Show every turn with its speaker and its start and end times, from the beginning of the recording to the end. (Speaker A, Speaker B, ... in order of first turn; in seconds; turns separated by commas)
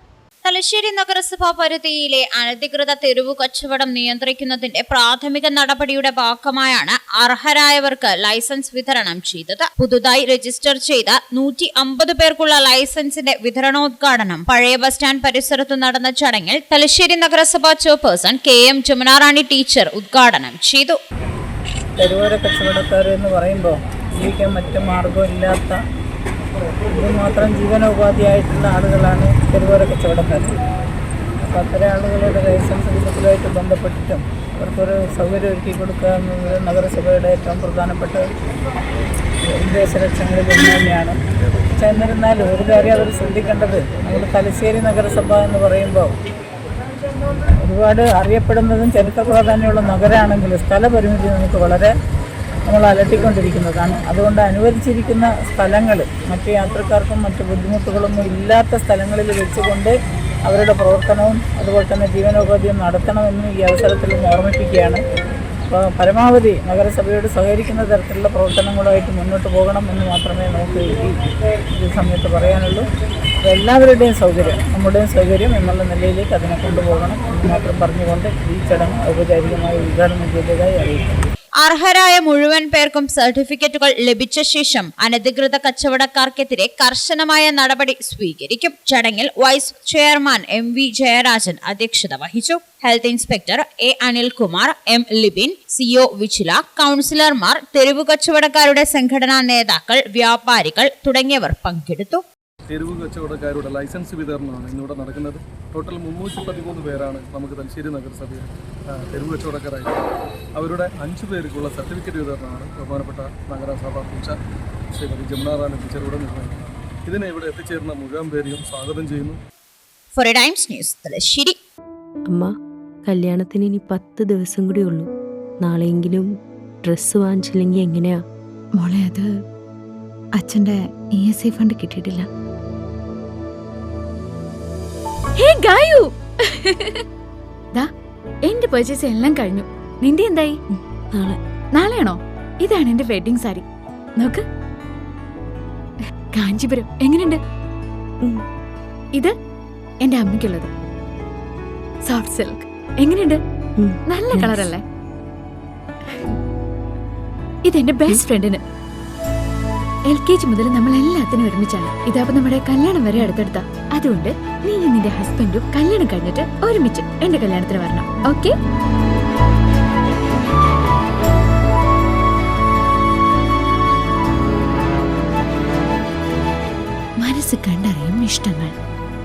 Speaker A: 0.4-21.0, Speaker B: 22.0-25.8, Speaker B: 26.9-30.5, Speaker B: 31.4-38.2, Speaker B: 39.6-41.1, Speaker B: 41.8-46.1, Speaker B: 47.6-51.9, Speaker B: 52.7-59.9, Speaker B: 60.5-65.0, Speaker B: 65.7-71.1, Speaker B: 71.8-72.8, Speaker B: 73.5-81.1, Speaker A: 81.6-102.2, Speaker C: 102.7-108.5, Speaker C: 109.1-109.9, Speaker C: 110.6-114.3, Speaker C: 115.0-119.4, Speaker A: 120.2-121.5, Speaker D: 123.1-125.1, Speaker D: 125.6-126.3, Speaker D: 126.9-128.2, Speaker E: 128.8-129.3, Speaker E: 130.4-132.3, Speaker E: 135.4-137.0, Speaker E: 138.5-140.6, Speaker E: 141.8-143.6, Speaker E: 146.3-147.4, Speaker E: 150.0-150.7, Speaker E: 152.1-153.4, Speaker D: 153.8-154.7, Speaker E: 154.1-154.8, Speaker E: 157.7-158.6, Speaker E: 160.1-168.5, Speaker E: 177.2-178.7